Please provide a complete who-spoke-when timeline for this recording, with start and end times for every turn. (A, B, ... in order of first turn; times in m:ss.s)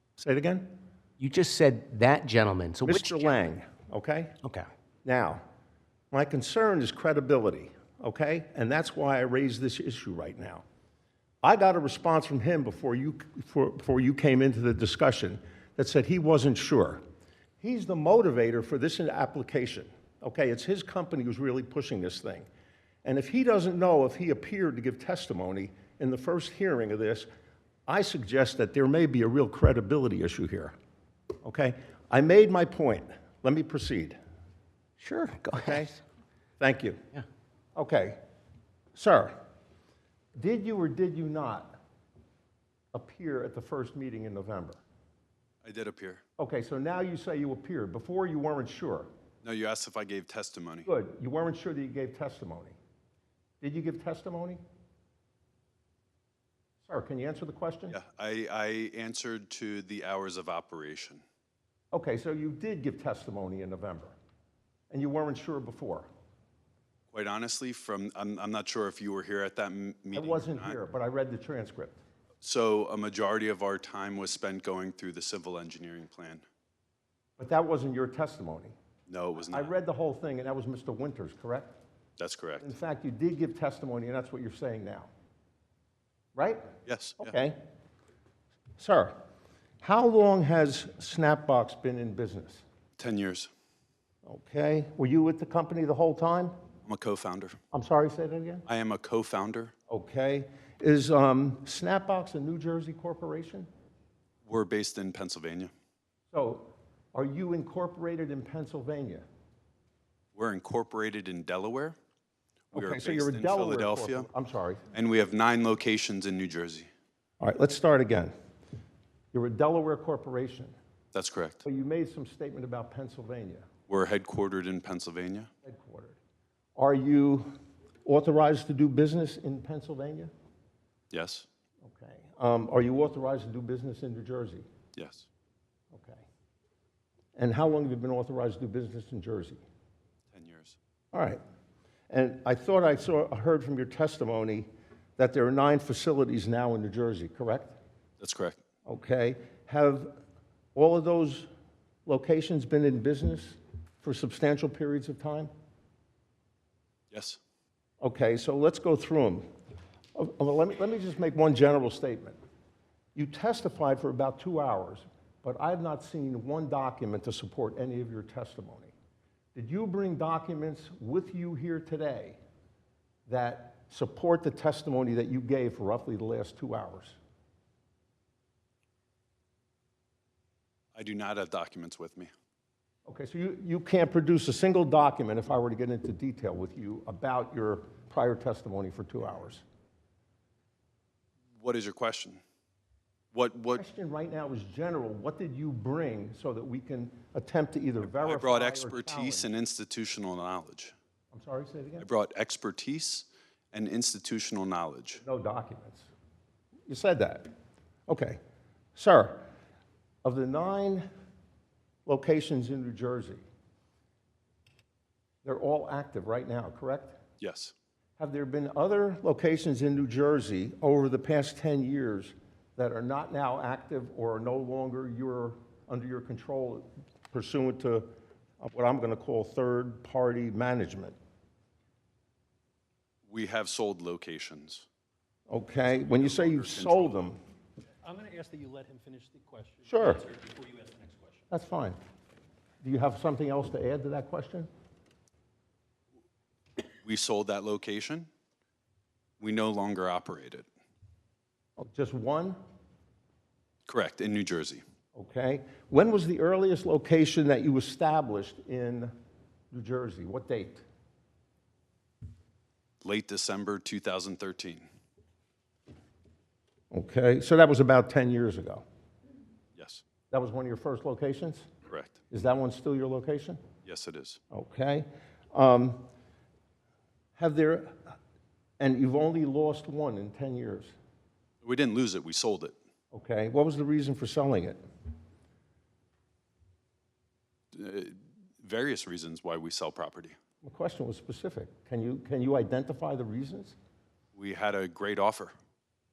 0:00.2-0:00.8 A
0:01.2-0:03.4 B
0:02.8-0:04.3 A
0:04.4-0:04.7 B
0:05.0-0:05.4 A
0:06.1-0:10.6 A
0:11.4-0:17.0 A
0:17.6-0:22.5 A
0:23.0-0:27.3 A
0:27.9-0:30.8 A
0:31.4-0:34.2 A
0:35.0-0:36.0 B
0:35.5-0:36.0 A
0:36.6-0:37.0 A
0:37.8-0:38.2 A
0:39.0-0:39.3 A
0:40.4-0:41.8 A
0:42.9-0:44.8 A
0:45.6-0:46.2 C
0:46.4-0:49.1 A
0:49.4-0:50.9 C
0:50.9-0:52.8 A
0:53.6-0:54.6 A
0:56.8-0:58.0 A
0:57.9-1:01.2 C
1:01.9-1:04.2 A
1:04.9-1:06.1 A
1:07.1-1:10.8 C
1:10.1-1:12.0 A
1:12.4-1:16.4 C
1:17.4-1:18.8 A
1:19.1-1:19.7 C
1:19.4-1:21.8 A
1:22.2-1:22.7 C
1:22.6-1:25.1 A
1:26.4-1:27.6 A
1:26.9-1:27.3 C
1:28.8-1:29.2 A
1:29.8-1:32.6 A
1:33.0-1:33.5 C
1:34.2-1:36.5 A
1:36.9-1:37.6 C
1:37.7-1:38.6 A
1:38.7-1:39.7 C
1:39.9-1:43.7 A
1:44.5-1:45.7 C
1:46.3-1:49.2 A
1:50.4-1:52.0 C
1:52.7-1:54.3 C
1:52.7-1:54.8 A
1:54.9-1:56.9 C
1:57.4-1:58.3 A
1:59.3-2:00.8 A
2:01.1-2:01.6 C
2:01.6-2:03.7 A
2:03.9-2:05.5 C
2:05.6-2:06.2 A
2:06.8-2:07.5 A
2:08.0-2:10.3 A
2:11.1-2:11.5 C
2:11.8-2:14.7 A
2:15.0-2:15.3 C
2:15.9-2:16.2 A
2:17.4-2:19.6 A
2:20.3-2:20.8 C
2:21.1-2:21.4 A
2:22.1-2:27.8 A
2:28.2-2:28.6 C
2:28.9-2:30.2 A
2:30.8-2:31.5 A
2:32.1-2:35.5 A
2:37.1-2:37.4 C
2:38.0-2:39.5 A
2:40.2-2:42.4 A
2:43.2-2:48.9 A
2:49.6-2:52.4 A
2:53.3-2:57.2 A
3:01.0-3:02.3 C
3:03.1-3:09.6 A
3:11.6-3:12.4 C
3:13.3-3:13.8 C
3:13.8-3:19.5 A
3:18.1-3:20.9 C
3:21.3-3:22.1 A
3:22.0-3:25.2 C
3:25.2-3:26.1 A
3:26.9-3:27.5 A
3:28.1-3:28.4 A
3:29.0-3:29.4 A
3:30.2-3:31.0 A
3:32.1-3:33.4 A
3:35.4-3:37.2 A
3:37.4-3:37.7 C
3:38.2-3:51.2 A
3:53.3-3:54.9 C
3:55.5-3:57.4 A
3:55.9-3:57.3 C
3:58.0-4:01.4 D
3:59.9-4:00.2 A
4:01.5-4:02.0 A
4:02.8-4:04.7 A
4:07.0-4:08.3 C
4:09.4-4:10.7 C
4:11.8-4:12.6 A
4:13.9-4:14.8 C
4:15.2-4:19.1 A
4:19.7-4:20.8 A
4:23.0-4:24.9 C
4:26.9-4:28.8 A
4:29.8-4:30.0 C
4:30.3-4:31.7 A
4:31.9-4:32.2 C
4:32.3-4:33.6 A
4:33.8-4:34.4 C
4:34.5-4:36.1 A
4:37.4-4:38.2 A
4:38.8-4:40.9 A
4:41.6-4:42.8 C
4:43.1-4:44.8 A
4:47.7-4:50.4 C
4:50.6-4:53.8 A
4:54.4-4:55.5 C